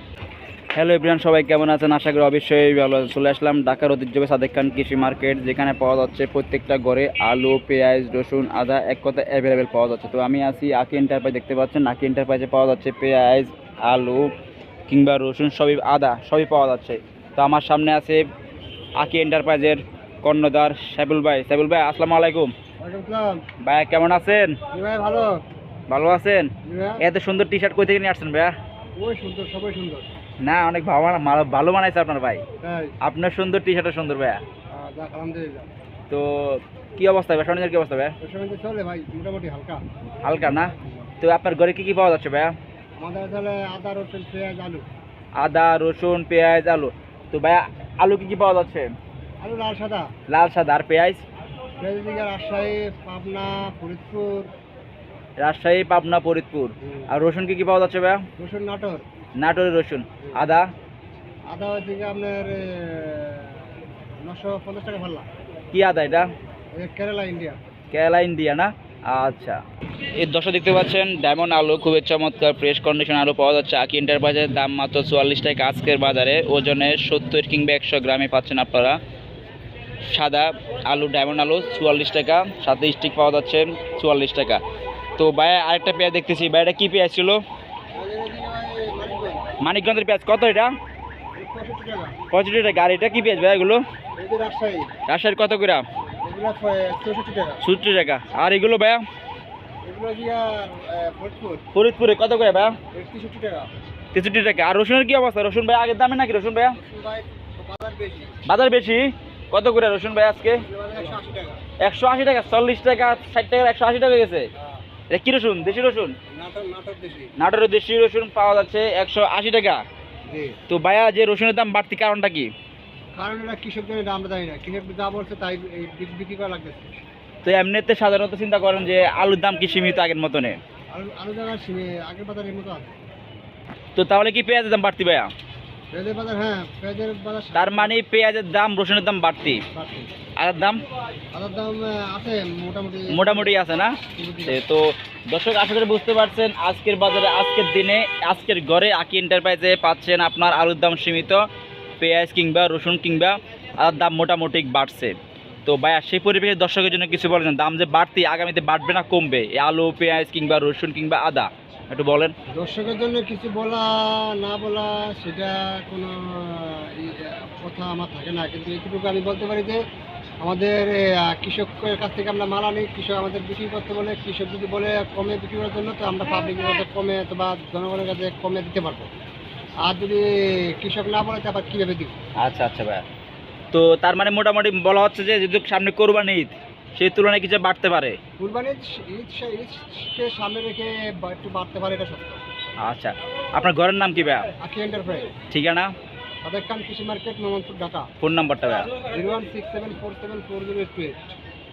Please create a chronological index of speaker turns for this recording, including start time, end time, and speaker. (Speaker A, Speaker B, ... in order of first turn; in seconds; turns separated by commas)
Speaker A: 0.7-14.3, Speaker A: 14.9-18.2, Speaker A: 19.0-22.5, Speaker B: 22.8-23.4, Speaker A: 23.6-24.6, Speaker B: 24.7-25.4, Speaker A: 25.9-28.5, Speaker B: 26.6-27.0, Speaker B: 29.0-30.1, Speaker A: 30.4-32.4, Speaker B: 32.6-33.0, Speaker A: 33.0-34.4, Speaker B: 34.7-35.7, Speaker A: 36.1-38.1, Speaker B: 38.2-39.8, Speaker A: 40.2-42.5, Speaker B: 40.8-41.1, Speaker B: 43.0-44.8, Speaker A: 45.4-48.9, Speaker B: 49.4-50.1, Speaker A: 50.3-51.2, Speaker B: 51.8-54.5, Speaker A: 55.4-58.2, Speaker B: 58.4-59.0, Speaker A: 59.4-60.7, Speaker B: 61.5-65.2, Speaker A: 65.7-66.3, Speaker B: 66.7-67.6, Speaker A: 67.9-69.6, Speaker A: 70.2-79.0, Speaker A: 80.1-84.6, Speaker A: 85.2-87.4, Speaker B: 88.0-89.5, Speaker A: 89.6-90.7, Speaker B: 91.3-92.2, Speaker A: 92.3-93.8, Speaker B: 94.2-94.9, Speaker A: 95.1-95.8, Speaker B: 96.2-97.7, Speaker A: 97.6-99.0, Speaker B: 99.8-101.6, Speaker A: 101.7-102.8, Speaker B: 102.9-103.7, Speaker A: 104.1-106.8, Speaker B: 106.7-108.4, Speaker A: 108.5-110.6, Speaker B: 110.5-111.6, Speaker A: 111.8-114.5, Speaker B: 114.6-114.8, Speaker A: 115.1-116.1, Speaker B: 116.3-117.3, Speaker A: 117.4-119.8, Speaker B: 120.3-120.6, Speaker A: 120.7-122.5, Speaker B: 123.2-126.9, Speaker A: 127.4-130.6, Speaker B: 130.9-132.9, Speaker A: 133.9-135.3, Speaker B: 135.9-137.9, Speaker A: 137.5-139.6, Speaker B: 139.7-140.1, Speaker A: 140.4-140.8, Speaker B: 141.3-144.6, Speaker A: 143.1-151.4, Speaker A: 152.0-155.1, Speaker A: 155.7-162.3, Speaker B: 162.6-169.8, Speaker B: 170.4-179.1, Speaker B: 179.8-182.1, Speaker A: 182.4-183.0, Speaker A: 183.7-188.2, Speaker B: 188.4-192.4, Speaker A: 192.8-194.5, Speaker B: 194.6-195.3, Speaker A: 195.5-195.9, Speaker B: 196.4-198.1, Speaker A: 198.2-198.9, Speaker B: 199.0-201.3